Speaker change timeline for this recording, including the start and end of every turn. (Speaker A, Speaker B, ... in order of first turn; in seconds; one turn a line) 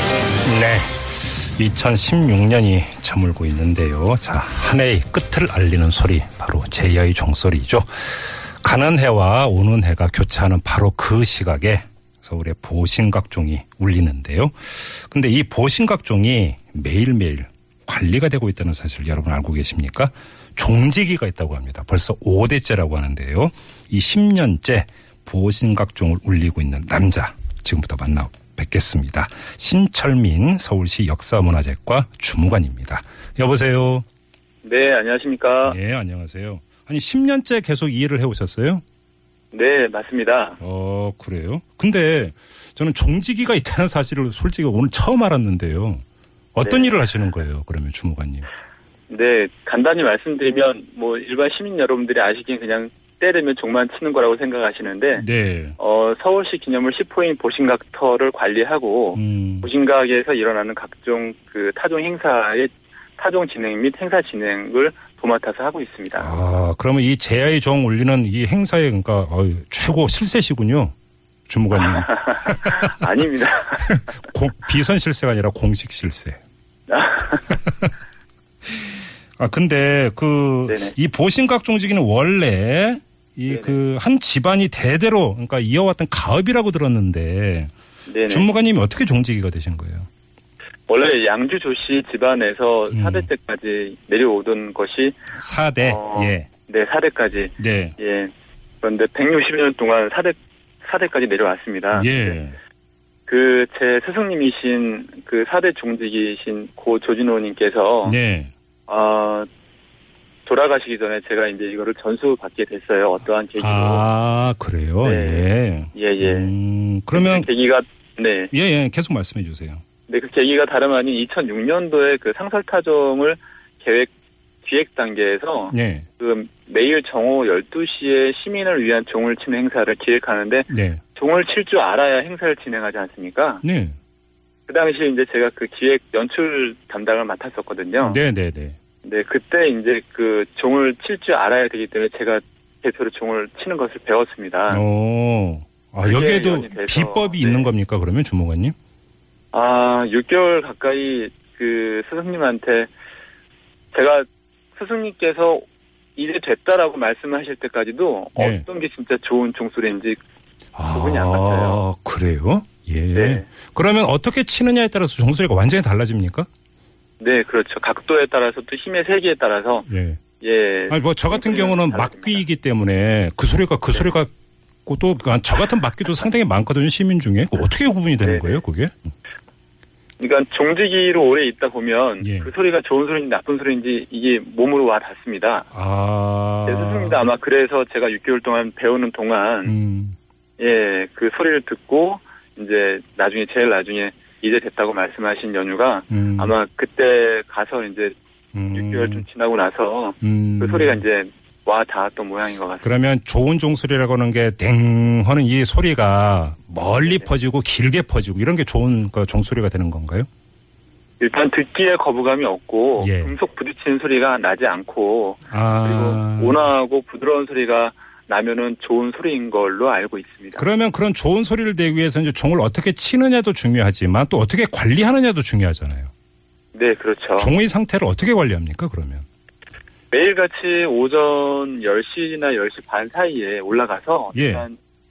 Speaker A: 0.5-34.0
Speaker B: 34.6-35.8
Speaker A: 35.6-38.8
Speaker B: 39.5-40.6
Speaker A: 40.6-46.0
Speaker A: 46.5-48.5
Speaker B: 46.6-47.0
Speaker B: 49.1-55.3
Speaker A: 55.1-55.8
Speaker B: 55.8-66.3
Speaker A: 59.2-59.7
Speaker A: 66.2-70.9
Speaker A: 71.5-73.0
Speaker B: 71.8-73.9
Speaker A: 73.8-76.4
Speaker B: 76.9-77.6
Speaker A: 77.5-77.9
Speaker A: 79.4-87.7
Speaker B: 80.7-81.0
Speaker B: 83.5-83.8
Speaker B: 88.1-88.5
Speaker A: 88.3-90.1
Speaker B: 90.9-95.2
Speaker A: 92.9-93.3
Speaker A: 95.4-96.5
Speaker B: 95.8-98.3
Speaker A: 97.6-98.0
Speaker B: 98.8-102.4
Speaker A: 101.9-102.6
Speaker B: 103.3-108.2
Speaker A: 108.0-108.5
Speaker B: 108.9-109.5
Speaker B: 110.5-114.1
Speaker A: 113.6-117.5
Speaker B: 115.0-116.5
Speaker B: 117.1-118.5
Speaker A: 118.5-119.8
Speaker B: 120.1-124.1
Speaker B: 124.6-133.6
Speaker A: 125.7-126.1
Speaker A: 130.7-131.0
Speaker A: 133.6-133.9
Speaker B: 134.7-138.2
Speaker A: 138.0-138.8
Speaker B: 139.0-144.8
Speaker A: 144.7-148.8
Speaker B: 146.0-147.7
Speaker B: 149.5-152.9
Speaker B: 153.9-160.2
Speaker A: 158.4-158.7
Speaker A: 160.8-166.5
Speaker B: 160.9-161.8
Speaker B: 163.1-163.5
Speaker B: 167.2-169.9
Speaker A: 169.9-170.2
Speaker B: 170.4-172.4
Speaker A: 170.9-174.3
Speaker A: 174.9-178.9
Speaker B: 178.2-178.6
Speaker B: 180.2-185.7
Speaker A: 182.2-182.5
Speaker A: 185.7-187.2
Speaker B: 186.7-189.8
Speaker A: 189.7-190.2
Speaker B: 190.6-198.2
Speaker A: 196.1-196.5
Speaker A: 198.5-199.3
Speaker B: 198.7-202.9
Speaker A: 200.2-201.0
Speaker A: 202.8-210.3
Speaker B: 207.0-207.3
Speaker B: 211.2-220.7
Speaker A: 213.0-213.3
Speaker A: 215.5-216.6
Speaker A: 220.6-226.1
Speaker B: 226.7-227.5
Speaker A: 227.4-229.2
Speaker B: 230.1-234.8
Speaker A: 234.3-234.7